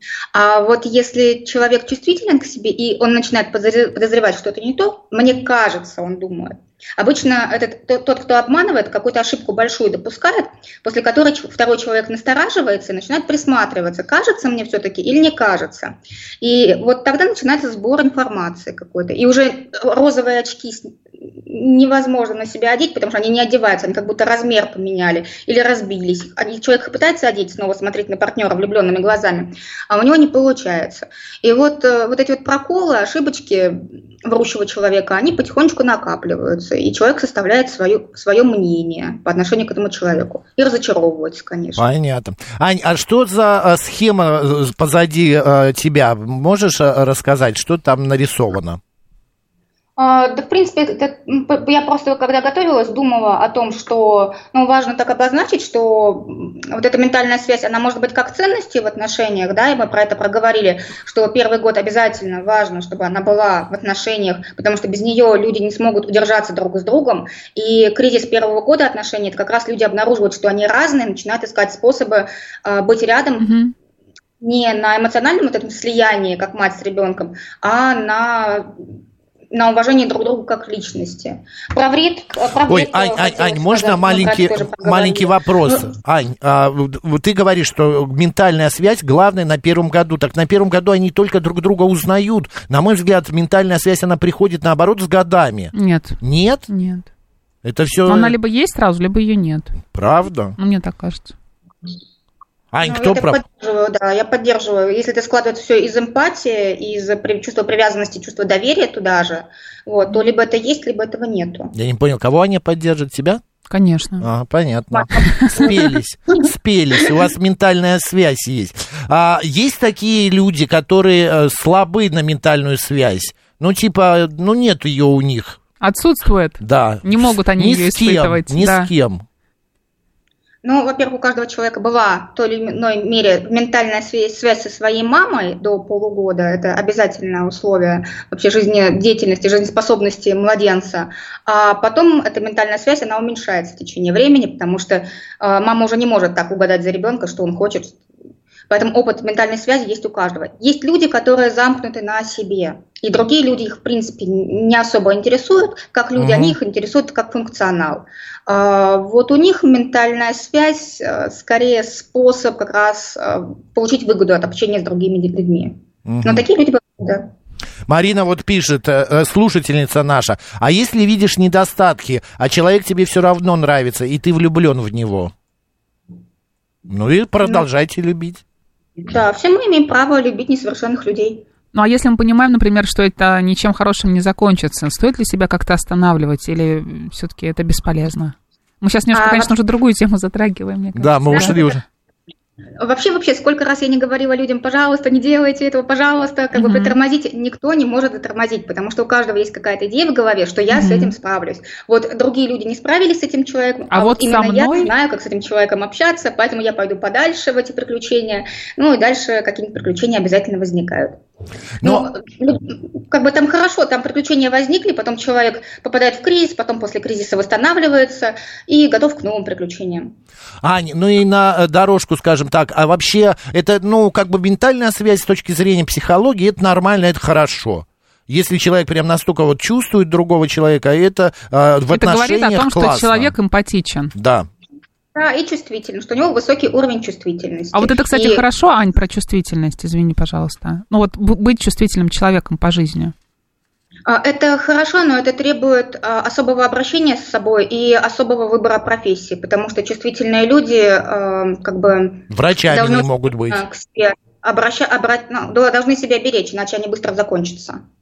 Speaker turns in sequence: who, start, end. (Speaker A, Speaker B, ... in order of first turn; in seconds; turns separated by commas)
Speaker A: 0.3-41.9, Speaker B: 41.8-48.8, Speaker A: 50.0-73.5, Speaker C: 73.4-73.7, Speaker A: 74.4-78.7, Speaker A: 79.5-85.9, Speaker B: 82.7-96.7, Speaker C: 95.7-97.1, Speaker B: 97.6-98.4, Speaker C: 98.1-99.8, Speaker B: 99.9-100.6, Speaker C: 100.6-101.3, Speaker B: 102.7-103.4, Speaker A: 102.8-111.7, Speaker B: 111.7-113.4, Speaker C: 113.7-114.3, Speaker B: 114.2-125.6, Speaker A: 115.0-115.9, Speaker C: 115.2-115.7, Speaker C: 125.8-128.9, Speaker B: 126.6-129.2, Speaker A: 130.6-148.0, Speaker A: 148.7-167.3, Speaker B: 156.2-156.6, Speaker B: 166.1-166.4, Speaker B: 167.9-175.3, Speaker B: 176.9-178.4, Speaker A: 179.1-181.4, Speaker C: 181.7-191.6, Speaker A: 189.1-189.5, Speaker B: 191.0-191.8, Speaker A: 191.3-191.8, Speaker A: 192.8-211.2, Speaker C: 196.5-197.0, Speaker C: 200.7-201.1, Speaker C: 203.9-204.9, Speaker B: 211.8-212.1, Speaker A: 211.8-220.1, Speaker B: 220.6-233.3, Speaker C: 231.9-234.1, Speaker B: 234.2-234.5, Speaker A: 235.2-238.4, Speaker C: 237.7-243.1, Speaker A: 244.1-257.8, Speaker B: 252.3-253.6